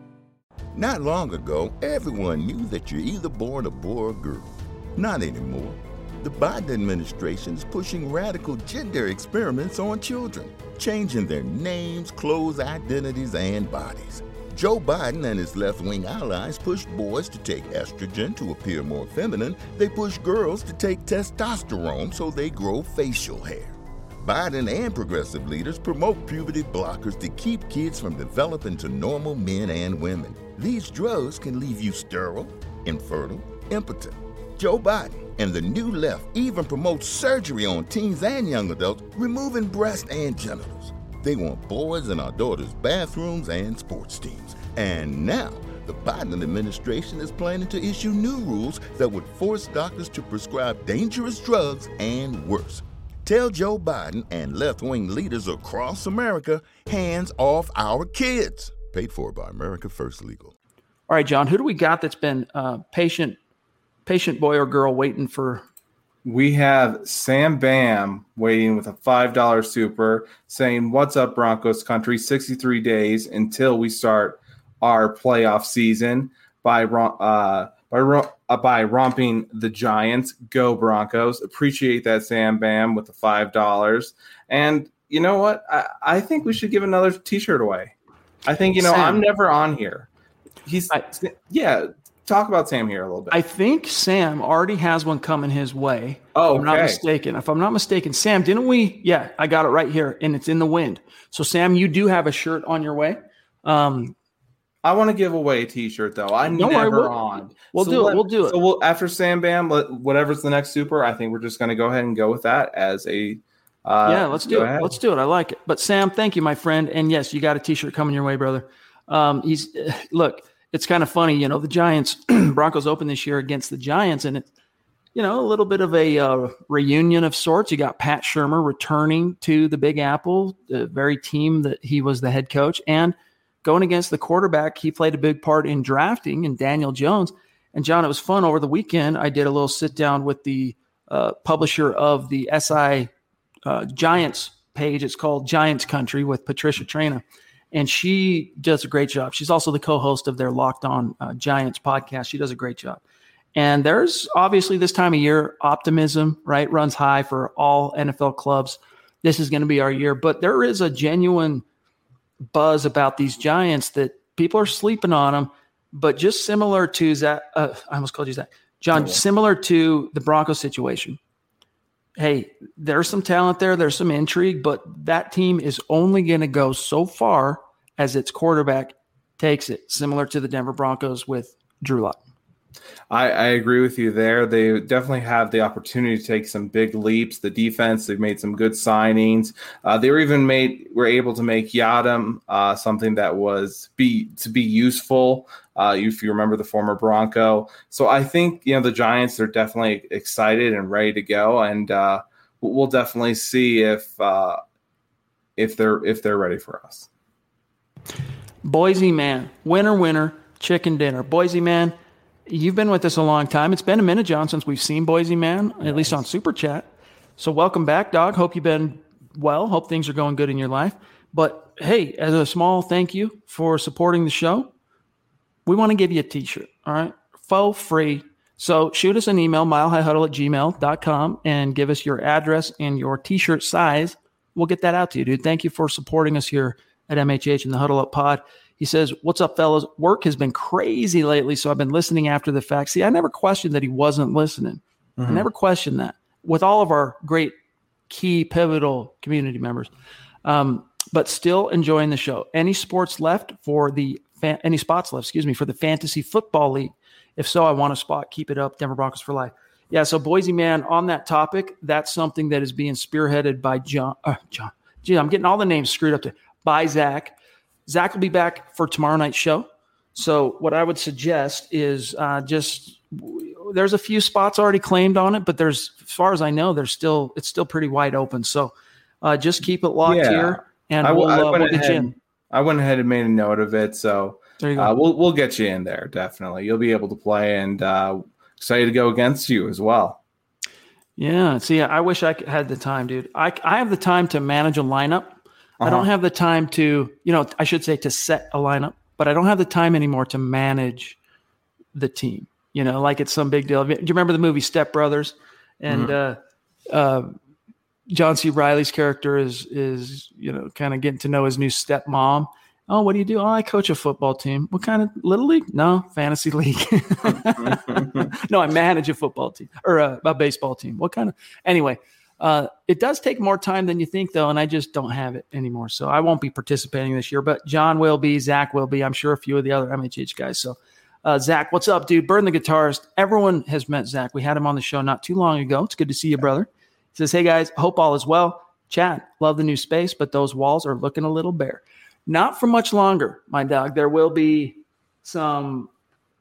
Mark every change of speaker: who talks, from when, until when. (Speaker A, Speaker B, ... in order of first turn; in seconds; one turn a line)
Speaker A: 0.7-60.5
Speaker B: 61.1-63.4
Speaker B: 64.0-65.6
Speaker C: 66.2-87.9
Speaker C: 88.5-90.1
Speaker B: 88.8-89.2
Speaker C: 90.6-93.4
Speaker B: 93.3-104.1
Speaker C: 96.3-97.0
Speaker C: 104.8-114.9
Speaker B: 106.5-108.5
Speaker B: 114.0-124.5
Speaker B: 125.1-143.1
Speaker B: 143.6-153.0
Speaker B: 153.5-161.6
Speaker B: 162.5-171.2
Speaker C: 168.9-169.2
Speaker B: 172.2-182.2
Speaker C: 183.1-204.6
Speaker C: 205.6-207.1
Speaker B: 208.6-211.9
Speaker B: 212.5-216.8
Speaker B: 217.4-224.7
Speaker B: 225.7-247.5
Speaker C: 245.2-245.4
Speaker B: 248.1-249.9
Speaker B: 250.4-267.3
Speaker B: 267.9-282.1
Speaker C: 280.0-290.2
Speaker B: 284.6-284.9
Speaker B: 291.2-301.2
Speaker C: 295.8-296.1
Speaker B: 301.9-306.4
Speaker C: 305.9-306.1
Speaker B: 306.9-307.3
Speaker B: 308.1-345.9
Speaker C: 317.7-318.2